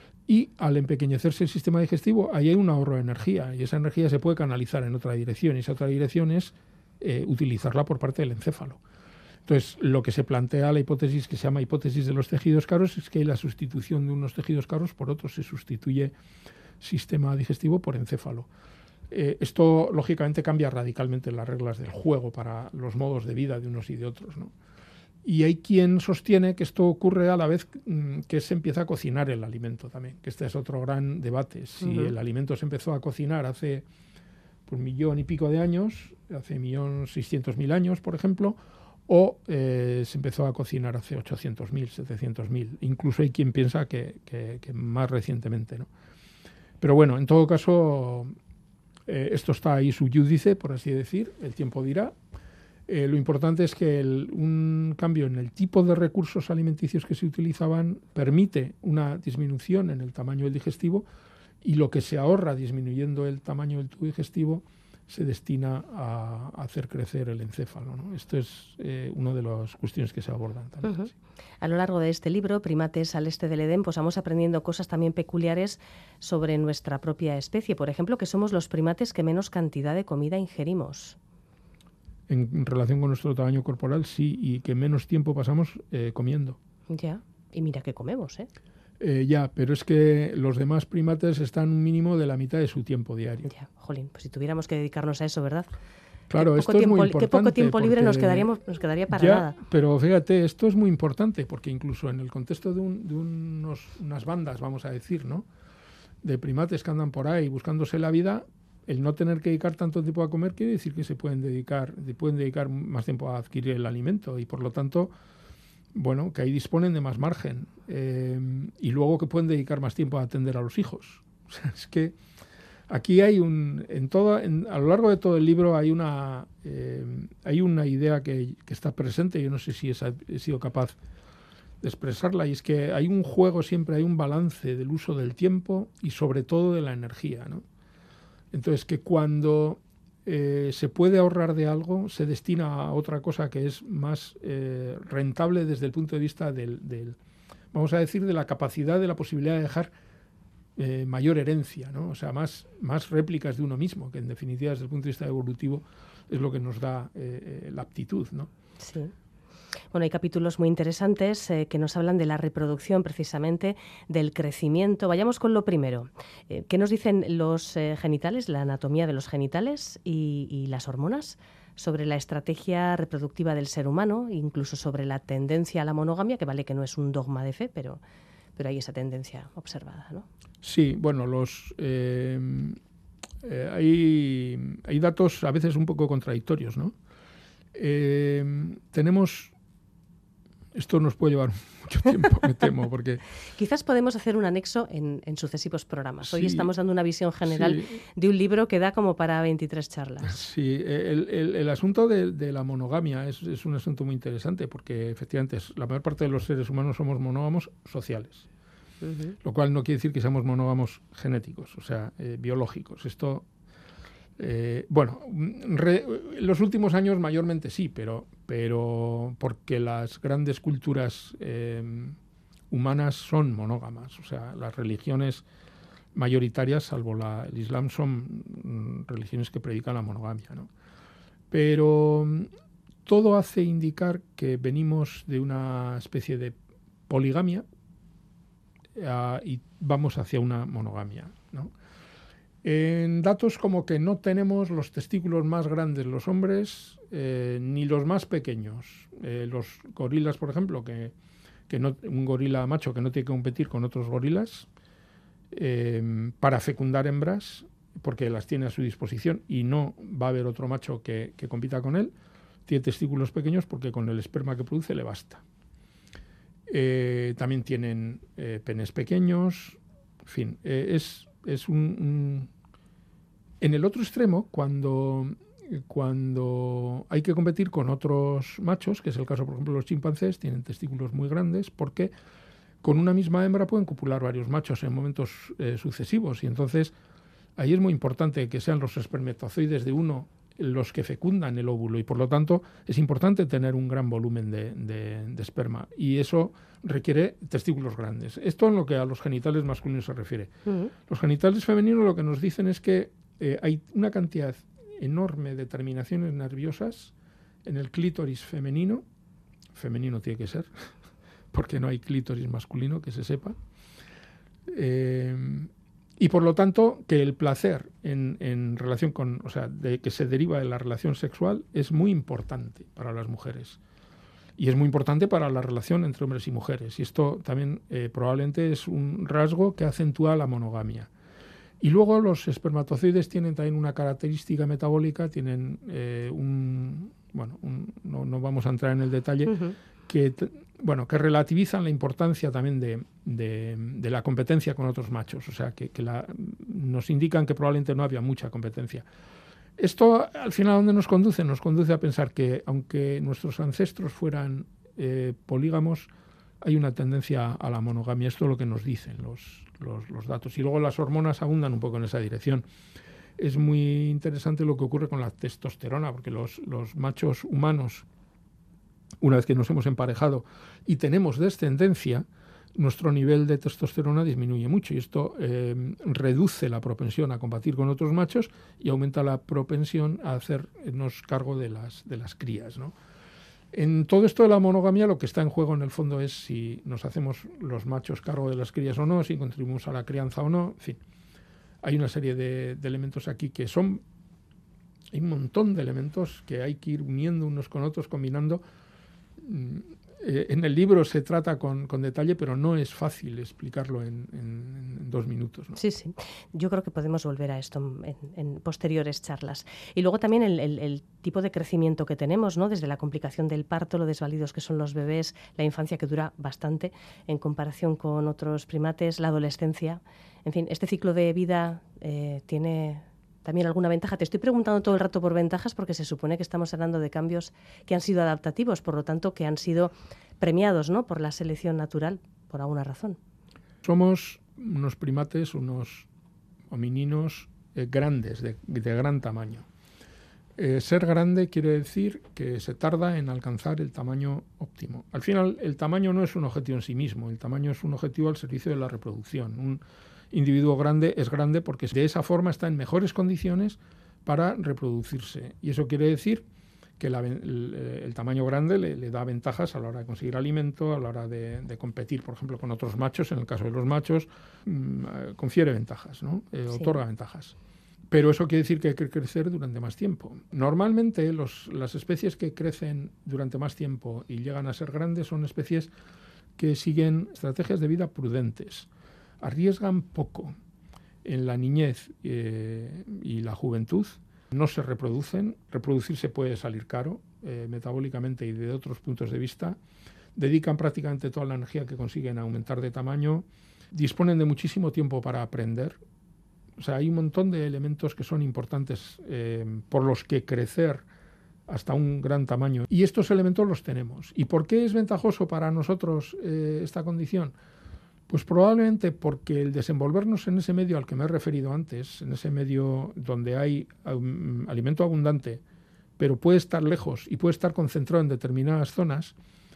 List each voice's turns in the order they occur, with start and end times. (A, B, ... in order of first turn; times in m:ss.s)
0:00.3-0:08.8 A
0:09.5-0:16.1 A
0:16.8-0:18.5 A
0:19.1-0:24.5 A
0:25.2-0:33.8 A
0:31.8-0:32.1 B
0:34.7-0:45.9 A
0:46.8-0:48.3 A
0:49.1-0:52.2 A
0:52.9-1:01.1 A
1:01.6-1:11.1 A
1:10.8-1:11.1 B
1:11.6-1:21.2 B
1:22.3-1:26.6 A
1:26.9-1:28.5 B
1:29.0-1:33.5 A
1:33.5-1:35.7 B
1:36.3-1:38.5 A
1:36.4-1:39.6 B
1:39.1-1:45.5 A
1:46.2-1:55.1 A
1:55.9-2:02.2 A
2:02.9-2:11.0 A
2:11.8-2:17.6 A
2:18.5-2:27.2 A
2:27.7-2:29.9 A
2:30.8-2:38.5 A
2:38.8-2:39.1 B
2:39.9-2:58.0 B
2:58.6-3:00.3 B
3:00.6-3:02.8 A
3:03.4-3:06.9 A
3:07.7-3:09.5 A
3:10.7-3:13.2 A
3:13.6-3:20.4 B
3:16.2-3:16.7 A
3:17.4-3:18.0 A
3:20.2-3:28.5 A
3:29.0-3:29.4 B
3:29.4-3:33.5 A
3:34.4-3:42.2 A
3:42.7-3:45.4 A
3:46.1-3:50.7 A
3:51.5-3:52.5 A
3:53.1-3:56.6 A
3:57.1-3:57.6 A
3:59.0-4:01.7 A
4:02.6-4:11.1 A
4:11.7-4:14.7 A
4:15.5-4:22.1 A
4:22.7-4:25.4 A
4:26.7-4:32.5 A
4:33.6-4:42.1 A
4:42.8-4:46.9 A
4:47.6-5:00.5 A
5:00.6-5:00.9 B
5:01.1-5:07.1 A
5:07.6-5:09.0 A
5:09.8-5:10.9 A
5:11.5-5:13.6 A
5:14.7-5:23.8 A
5:24.6-5:31.1 A
5:31.8-5:49.0 A
5:49.8-5:56.1 A
5:56.6-6:02.6 A
6:03.4-6:08.1 A
6:09.2-6:22.9 A
6:23.7-6:31.0 A
6:31.8-6:34.0 A
6:35.1-6:38.6 A
6:39.4-6:45.8 A
6:45.8-7:13.2 B
7:13.8-7:16.1 A
7:16.7-7:19.6 A
7:20.6-7:29.8 A
7:30.3-7:36.4 A
7:37.0-7:47.5 A
7:48.1-7:55.9 A
7:56.6-7:58.9 A
7:59.4-8:00.6 A
8:01.2-8:09.8 A
8:10.4-8:16.0 A
8:16.8-8:21.0 A
8:21.7-8:27.5 A
8:28.3-8:35.6 A
8:36.2-8:39.3 A